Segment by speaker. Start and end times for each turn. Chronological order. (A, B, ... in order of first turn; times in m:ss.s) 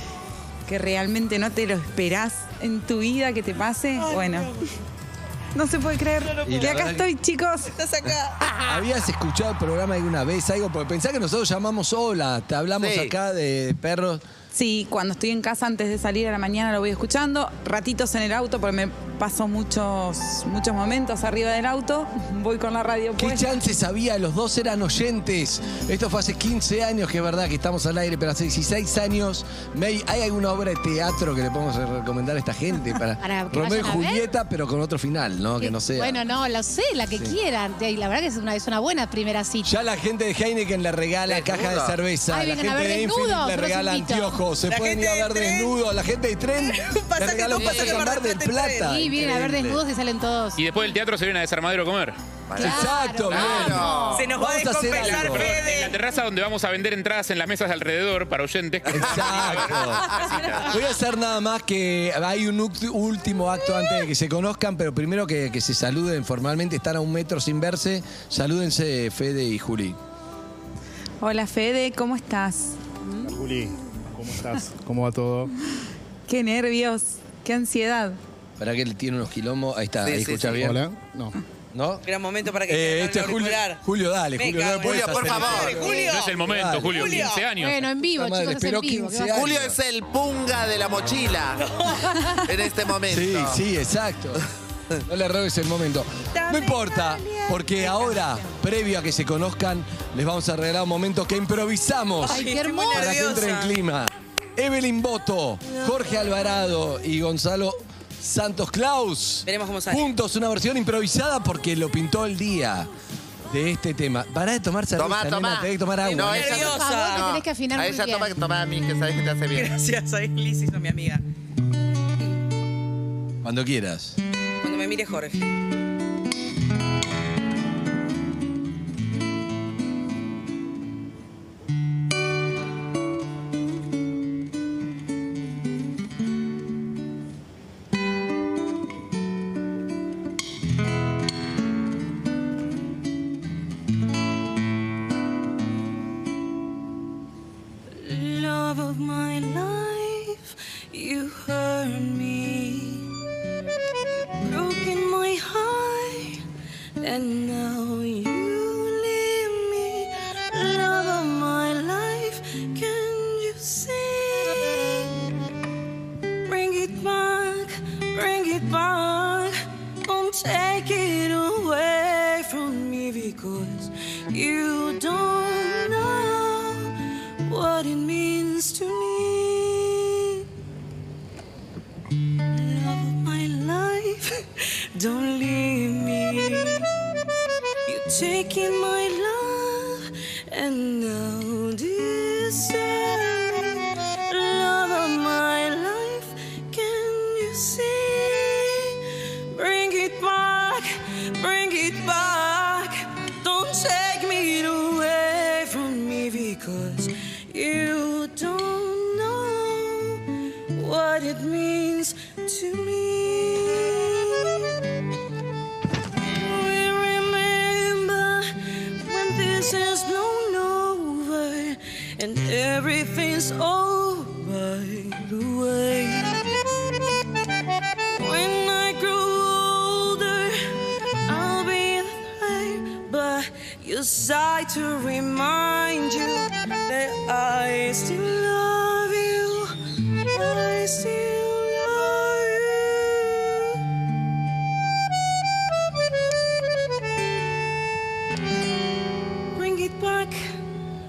0:00.7-0:04.5 A
0:04.0-0:04.6 B
0:05.5-0:07.7 A
0:06.2-0:06.8 B
0:06.4-0:07.1 C
0:07.6-0:08.5 B
0:08.6-0:14.2 C
0:12.8-0:13.1 D
0:14.5-0:23.6 A
0:23.2-0:36.2 C
0:33.2-0:34.3 E
0:35.6-0:39.8 E
0:39.6-0:49.8 C
0:41.3-0:42.0 D
0:42.3-0:44.4 E
0:44.7-0:45.8 B
0:46.7-0:48.9 B
0:47.6-0:48.0 D
0:48.8-0:50.6 E
0:50.6-0:52.2 F
0:52.5-0:54.3 D
0:52.6-0:54.1 E
0:52.6-0:55.6 C
0:54.1-0:56.0 B
0:54.9-1:00.7 F
0:58.9-1:10.0 C
0:59.1-1:00.7 D
1:11.2-1:12.8 A
1:13.0-1:13.3 E
1:13.2-1:15.5 G
1:16.3-1:18.2 A
1:18.6-1:20.8 C
1:20.0-1:20.6 D
1:20.6-1:21.4 G
1:21.7-1:22.0 C
1:22.0-1:23.8 B
1:22.7-1:27.2 C
1:24.4-1:27.5 B
1:24.8-1:25.9 D
1:25.9-1:27.8 F
1:27.6-1:29.5 E
1:28.0-1:29.8 C
1:29.3-1:31.7 D
1:31.6-1:32.3 B
1:32.4-1:33.6 D
1:33.1-1:34.4 C
1:35.0-1:52.9 C
1:36.5-1:37.7 H
1:42.2-1:43.8 B
1:42.3-1:43.4 E
1:49.5-1:50.0 B
1:53.5-1:56.7 C
1:55.0-1:59.8 D
1:56.0-1:57.3 B
1:56.4-1:58.3 E
1:59.5-2:01.2 B
2:03.4-2:04.2 C
2:04.6-2:05.5 B
2:28.0-2:33.1 H
2:34.4-2:36.4 H
2:37.0-2:45.0 H
2:46.5-2:56.9 H
2:57.5-3:00.4 H
3:02.5-3:04.4 H
3:05.0-3:06.9 H
3:07.9-3:18.9 H
3:19.5-3:30.2 H
3:30.7-3:34.6 H
3:36.3-3:38.5 H
3:39.0-3:46.4 H
3:48.2-3:50.6 H
3:51.3-3:59.7 H
4:00.3-4:03.5 H
4:09.6-4:10.5 H